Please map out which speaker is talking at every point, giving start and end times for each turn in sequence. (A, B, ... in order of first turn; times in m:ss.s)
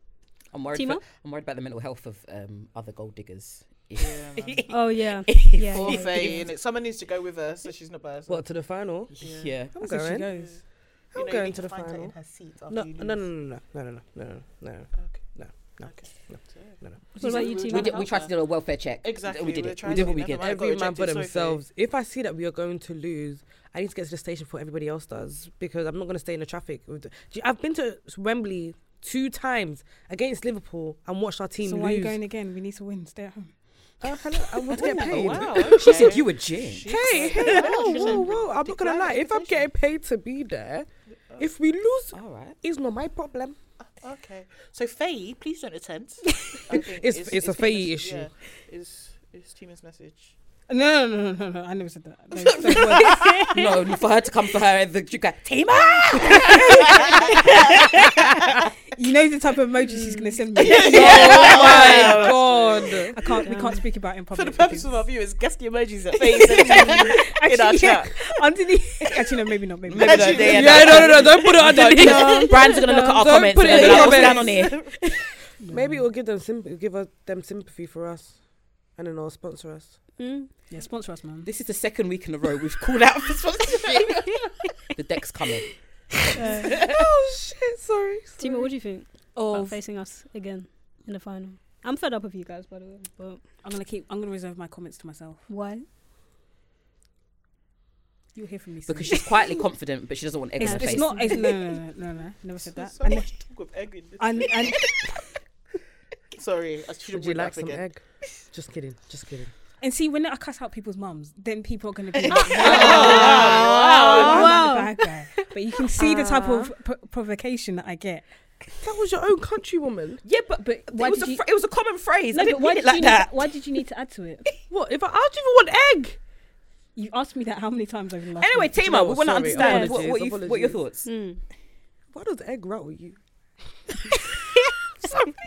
0:00.5-0:06.5 A
0:00.7-0:01.0 B
0:04.0-0:04.6 C
0:04.7-0:06.2 B
0:05.7-0:09.7 C
0:08.3-0:09.2 D
0:09.2-0:09.7 A
0:09.7-0:10.3 D
0:09.8-0:10.6 E
0:10.3-0:13.3 C
0:11.1-0:12.2 D
0:12.7-0:17.2 D
0:14.9-0:18.3 C
0:17.2-0:18.0 B
0:17.2-0:17.6 E
0:17.6-0:20.5 A
0:19.0-0:21.6 C
0:19.8-0:32.2 D
0:31.6-0:33.6 E
0:34.0-0:36.2 D
0:34.7-0:39.7 C
0:34.9-0:38.0 A
0:36.9-0:43.6 D
0:37.2-0:37.6 E
0:42.1-0:42.6 A
0:43.8-0:50.4 C
0:46.7-0:48.3 D
0:50.7-0:53.5 E
0:52.4-0:53.1 C
0:53.2-0:53.5 B
0:53.5-0:58.1 A
0:56.3-0:57.3 E
0:58.9-1:02.3 E
0:59.9-1:00.4 B
1:00.7-1:03.1 C
1:00.7-1:02.3 A
1:00.8-1:03.2 D
1:03.1-1:05.0 E
1:04.3-1:08.2 C
1:06.6-1:11.5 E
1:09.9-1:14.9 A
1:10.0-1:12.4 C
1:10.5-1:14.8 D
1:11.9-1:13.2 B
1:13.6-1:14.9 C
1:15.6-1:16.1 E
1:15.6-1:20.0 D
1:20.2-1:20.5 B
1:20.7-1:21.5 E
1:21.4-1:24.4 A
1:23.6-1:24.3 C
1:24.9-1:25.7 A
1:26.4-1:26.7 B
1:26.8-1:28.7 D
1:28.4-1:33.4 B
1:29.4-1:29.8 E
1:33.6-1:35.5 E
1:35.5-1:35.9 B
1:38.4-1:39.4 E
1:38.9-1:41.4 A
1:40.6-1:43.5 E
1:40.6-1:41.4 B
1:42.6-1:44.8 C
1:44.2-1:44.8 E
1:46.3-1:47.9 C
1:47.1-1:49.5 D
1:49.8-1:53.5 E
1:52.3-1:54.3 A
1:52.4-1:54.5 C
1:52.9-1:53.5 D
1:54.1-1:58.2 E
1:54.2-1:54.9 B
1:56.0-1:56.7 D
1:58.8-2:00.2 D
2:00.2-2:03.6 A
2:00.6-2:01.5 E
2:02.3-2:04.5 E
2:04.7-2:06.2 D
2:06.9-2:08.8 E
2:08.4-2:11.1 A
2:08.8-2:10.8 D
2:09.5-2:10.0 B
2:11.0-2:11.4 B
2:12.1-2:13.2 D